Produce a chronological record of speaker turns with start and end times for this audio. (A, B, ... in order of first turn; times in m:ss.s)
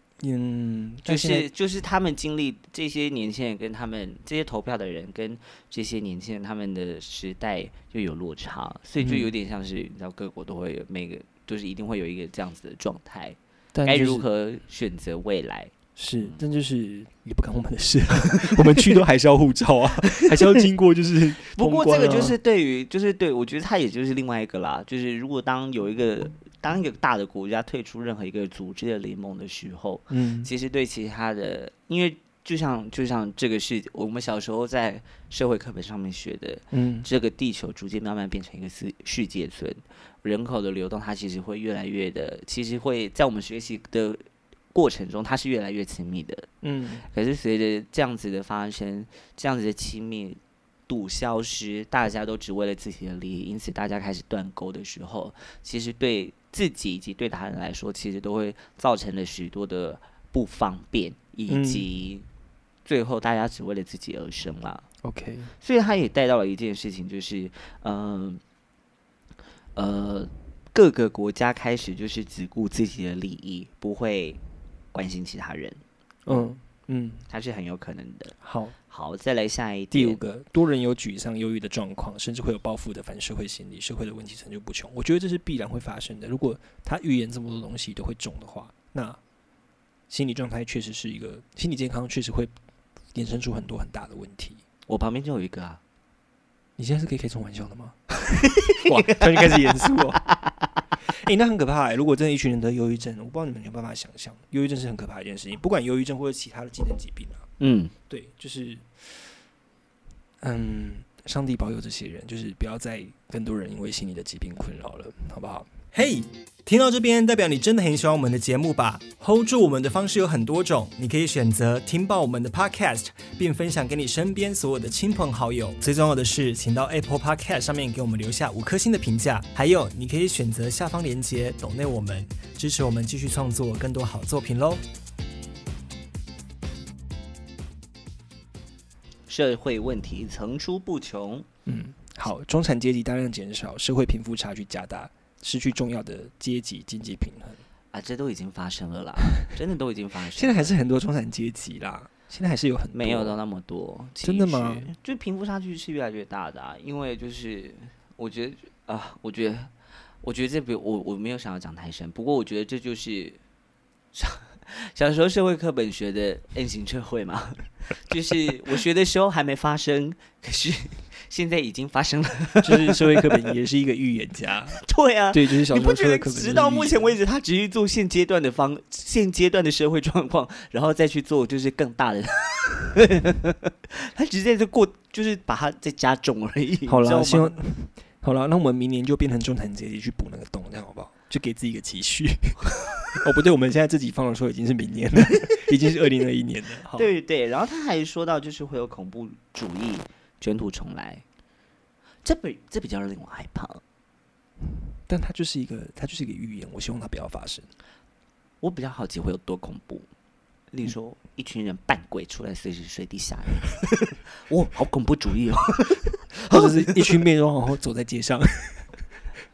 0:00.2-0:01.5 A
0:01.0-0:16.4 B
0:09.0-0:09.3 A
0:13.7-0:14.2 A
0:16.0-0:22.4 A
0:18.4-0:18.7 B
0:21.5-0:46.5 B
0:30.1-0:30.5 A
0:36.7-0:37.1 A
0:46.6-0:47.0 A
0:47.1-1:02.2 B
1:01.5-1:01.8 A
1:02.8-1:04.8 B
1:05.0-1:05.5 A
1:05.6-1:08.4 B
1:09.8-1:14.4 B
1:14.9-1:16.5 B
1:16.2-1:17.2 A
1:17.3-1:18.3 B
1:18.4-1:18.7 A
1:18.9-1:20.2 B
1:19.9-1:29.2 A
1:30.1-1:32.5 A
1:33.1-1:34.6 A
1:34.9-1:35.8 B
1:36.8-1:40.2 A
1:38.6-1:40.6 B
1:41.1-1:47.4 A
1:47.6-1:47.9 B
1:48.1-1:48.9 A
1:50.4-2:14.8 A
2:19.3-2:21.5 B
2:21.6-2:27.6 A
2:27.9-2:30.7 B
2:30.4-2:33.4 A
2:32.9-2:39.7 B
2:34.2-2:34.9 A
2:40.2-2:43.4 B
2:44.1-2:53.4 B
2:52.6-2:57.1 A
2:54.8-3:07.5 B
3:06.9-3:17.1 A
3:16.9-3:21.2 B
3:22.2-3:23.8 B
3:24.9-3:27.7 A
3:28.6-3:30.1 B
3:30.7-3:37.2 B
3:36.5-3:38.9 A